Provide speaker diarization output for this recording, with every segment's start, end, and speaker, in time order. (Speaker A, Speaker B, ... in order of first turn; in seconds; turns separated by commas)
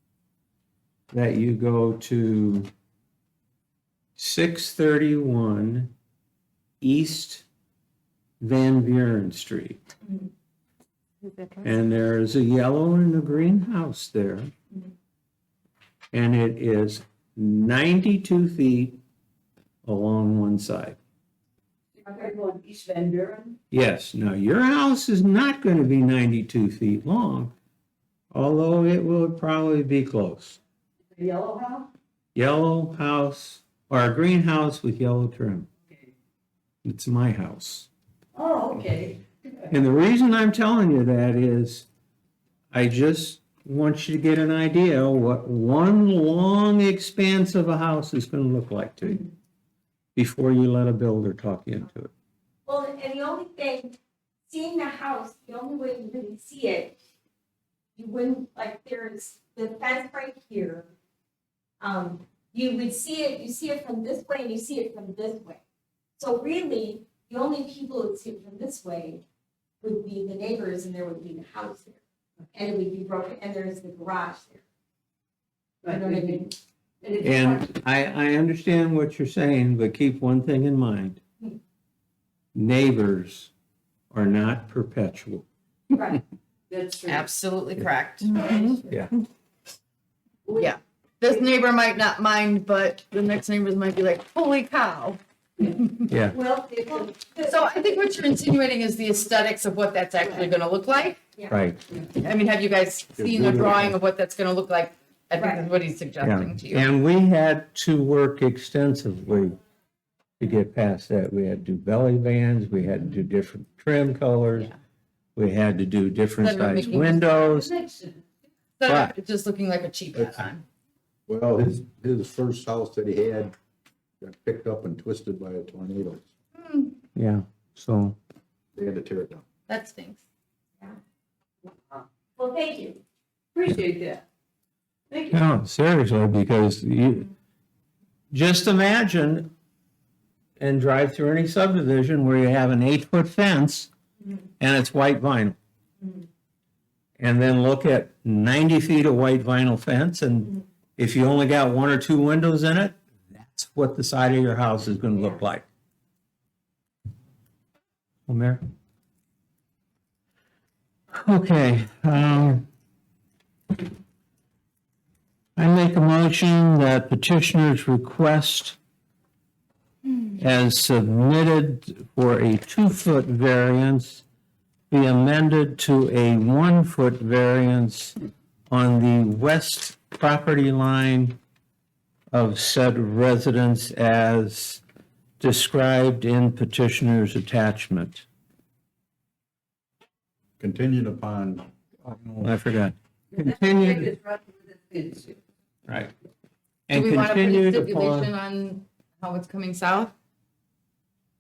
Speaker A: 1.1-2.7, Speaker A: 4.2-5.9, Speaker A: 6.8-7.5, Speaker A: 8.4-9.8, Speaker A: 11.6-14.5, Speaker A: 16.1-19.0, Speaker A: 19.8-21.0, Speaker B: 22.0-23.6, Speaker A: 23.7-27.5, Speaker A: 28.3-30.6, Speaker B: 31.1-31.9, Speaker A: 32.4-35.7, Speaker A: 36.9-37.9, Speaker B: 38.3-39.3, Speaker A: 39.7-41.9, Speaker A: 42.7-49.3, Speaker A: 50.2-52.1, Speaker C: 52.7-54.0, Speaker C: 54.5-57.0, Speaker C: 58.0-60.9, Speaker C: 61.8-65.6, Speaker C: 66.2-69.2, Speaker C: 69.8-72.0, Speaker C: 72.5-74.6, Speaker B: 75.8-76.5, Speaker C: 75.9-76.5, Speaker B: 77.0-77.7, Speaker A: 77.2-81.2, Speaker A: 82.5-83.5, Speaker A: 84.1-85.5, Speaker C: 85.9-86.2, Speaker B: 86.7-87.3, Speaker D: 87.1-88.8, Speaker B: 88.4-88.8, Speaker A: 88.8-89.1, Speaker B: 90.5-91.5, Speaker D: 90.5-96.0, Speaker A: 96.1-96.4, Speaker B: 96.3-97.7, Speaker D: 97.4-101.2, Speaker B: 100.2-100.5, Speaker A: 101.5-101.8, Speaker D: 102.1-106.8, Speaker E: 103.2-103.9, Speaker B: 103.5-104.0, Speaker C: 105.4-105.6, Speaker A: 106.2-109.6, Speaker A: 110.4-114.7, Speaker A: 115.4-117.7, Speaker D: 116.4-117.1, Speaker B: 116.7-118.3, Speaker D: 118.8-120.7, Speaker A: 118.8-119.1, Speaker E: 120.2-120.5, Speaker E: 121.3-123.5, Speaker E: 124.2-126.2, Speaker D: 126.6-127.0, Speaker A: 127.2-128.2, Speaker E: 128.8-129.4, Speaker D: 129.7-130.2, Speaker C: 132.4-133.0, Speaker B: 133.6-134.2, Speaker B: 135.1-135.4, Speaker A: 135.3-137.3, Speaker A: 138.3-139.5, Speaker A: 140.6-143.9, Speaker A: 144.6-145.6, Speaker A: 147.2-155.7, Speaker A: 158.3-158.6, Speaker A: 161.1-162.7, Speaker A: 165.6-168.8, Speaker A: 170.4-174.2, Speaker A: 174.9-178.2, Speaker A: 178.7-181.4, Speaker A: 182.3-184.8, Speaker A: 185.4-188.2, Speaker E: 190.6-192.5, Speaker A: 192.4-194.1, Speaker B: 193.3-195.4, Speaker A: 195.9-196.1, Speaker A: 196.9-198.3, Speaker D: 196.9-200.1